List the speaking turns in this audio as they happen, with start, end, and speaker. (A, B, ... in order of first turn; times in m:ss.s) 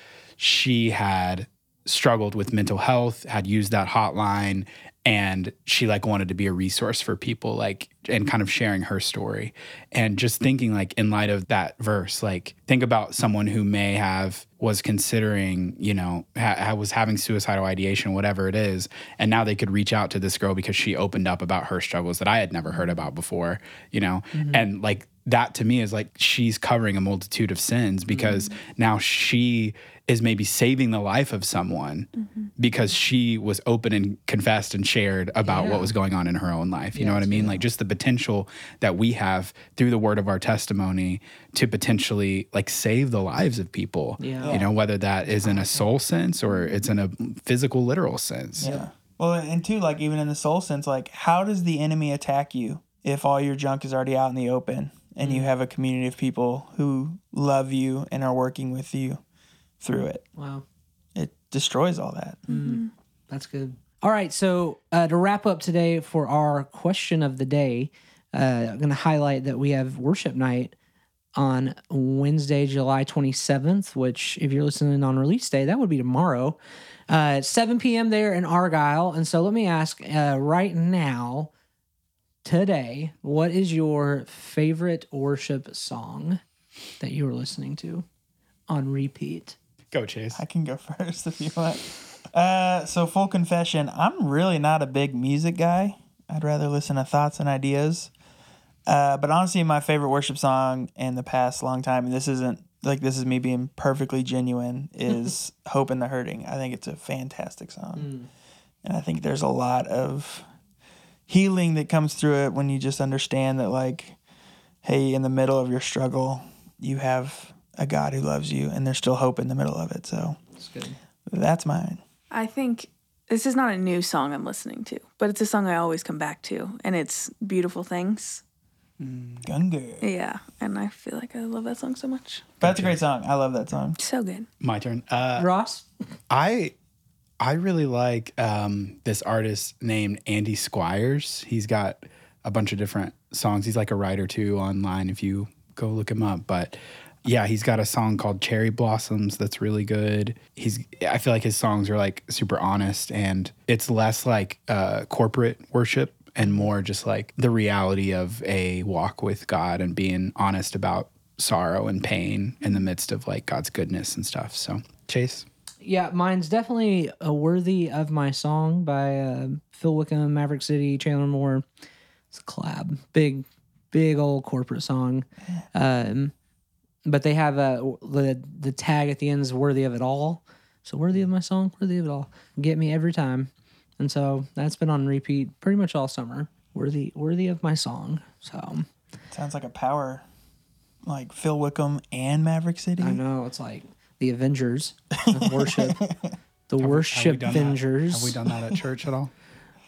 0:00.4-0:48.7 A
0:24.3-0:24.6 B
0:28.1-0:28.5 B
0:32.2-0:32.5 C
0:35.4-0:35.9 B
0:36.9-0:37.6 B
0:44.2-0:44.6 B
0:44.4-0:44.7 D
0:45.3-0:45.8 B
0:48.6-0:59.2 D
0:48.6-0:48.9 B
0:55.2-0:55.5 B
0:59.8-1:00.2 D
1:00.4-1:00.6 B
1:01.1-1:02.4 D
1:02.5-1:02.9 C
1:02.5-1:10.8 B
1:11.4-1:16.6 B
1:17.1-1:21.5 B
1:22.4-1:26.4 B
1:27.0-1:28.0 B
1:28.7-1:29.6 B
1:29.9-1:30.4 A
1:30.3-1:38.1 D
1:38.9-1:48.1 D
1:48.0-1:48.3 B
1:48.8-1:50.4 D
1:51.3-1:54.2 D
1:54.8-2:00.4 D
2:00.6-2:01.0 B
2:01.3-2:02.0 D
2:02.3-2:08.4 C
2:09.0-2:09.5 A
2:09.4-2:10.1 D
2:10.0-2:12.5 C
2:12.6-2:13.0 A
2:12.6-2:14.0 D
2:14.0-2:14.5 C
2:14.6-2:15.5 A
2:15.4-2:15.8 B
2:16.3-2:16.7 A
2:17.4-2:45.4 A
2:45.8-2:51.6 B
2:52.3-2:56.3 B
2:57.0-3:08.9 B
3:09.3-3:10.2 D
3:11.0-3:13.2 D
3:13.0-3:16.0 B
3:15.1-3:16.4 D
3:16.7-3:18.4 B
3:16.8-3:19.3 A